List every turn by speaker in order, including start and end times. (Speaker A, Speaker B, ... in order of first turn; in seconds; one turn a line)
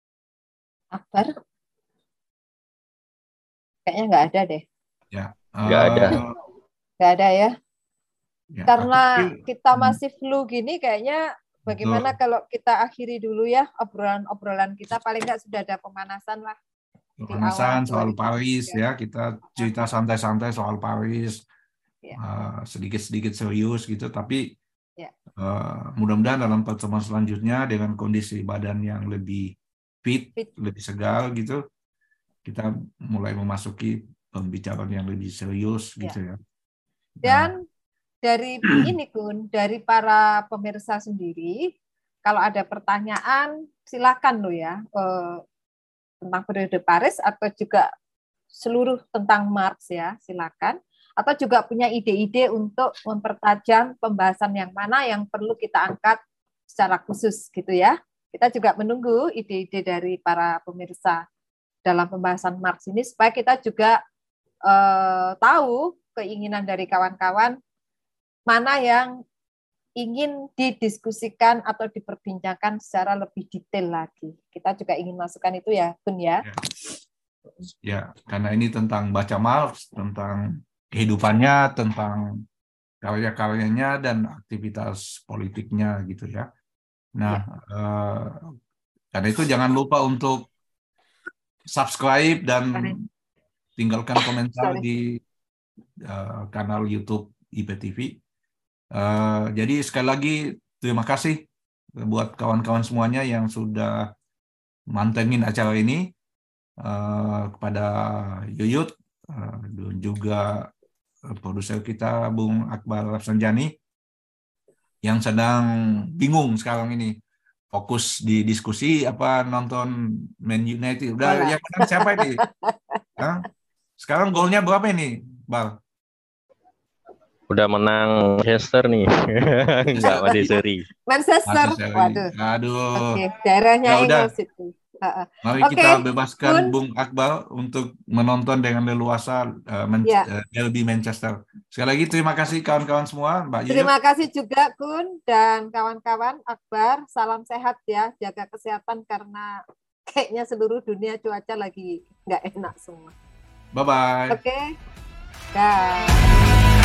Speaker A: 0.9-1.3
Speaker A: 3.9-4.6
Speaker B: 5.1-6.4
Speaker C: 5.7-6.2
Speaker A: 7.0-7.5
Speaker B: 8.5-10.0
Speaker A: 8.7-16.6
Speaker B: 11.7-12.1
Speaker B: 17.2-21.4
Speaker A: 17.3-18.8
Speaker B: 22.2-24.5
Speaker B: 25.4-31.6
Speaker B: 32.5-36.4
Speaker B: 37.2-37.5
Speaker A: 37.2-37.7
Speaker A: 38.2-41.7
Speaker A: 42.2-45.4
Speaker A: 46.2-47.9
Speaker A: 48.5-56.2
Speaker A: 56.7-61.2
Speaker A: 61.9-64.0
Speaker A: 64.7-67.6
Speaker A: 68.5-69.2
Speaker A: 70.0-76.5
Speaker B: 77.8-82.3
Speaker B: 83.0-86.5
Speaker B: 87.2-88.5
Speaker B: 89.1-90.5
Speaker B: 91.7-93.0
Speaker B: 93.8-95.2
Speaker B: 96.0-98.2
Speaker B: 98.9-101.4
Speaker B: 102.0-104.1
Speaker B: 104.9-106.1
Speaker B: 106.8-110.7
Speaker B: 111.3-113.7
Speaker B: 115.0-117.2
Speaker B: 117.7-122.4
Speaker A: 121.2-123.2
Speaker B: 123.2-123.5
Speaker B: 124.0-125.8
Speaker C: 127.5-130.9
Speaker B: 130.0-130.5
Speaker A: 131.1-132.3
Speaker B: 131.5-133.2
Speaker A: 132.9-136.8
Speaker B: 133.8-134.3
Speaker B: 135.4-143.9
Speaker A: 143.7-153.1
Speaker B: 153.7-154.4
Speaker A: 154.3-154.8
Speaker A: 155.5-156.4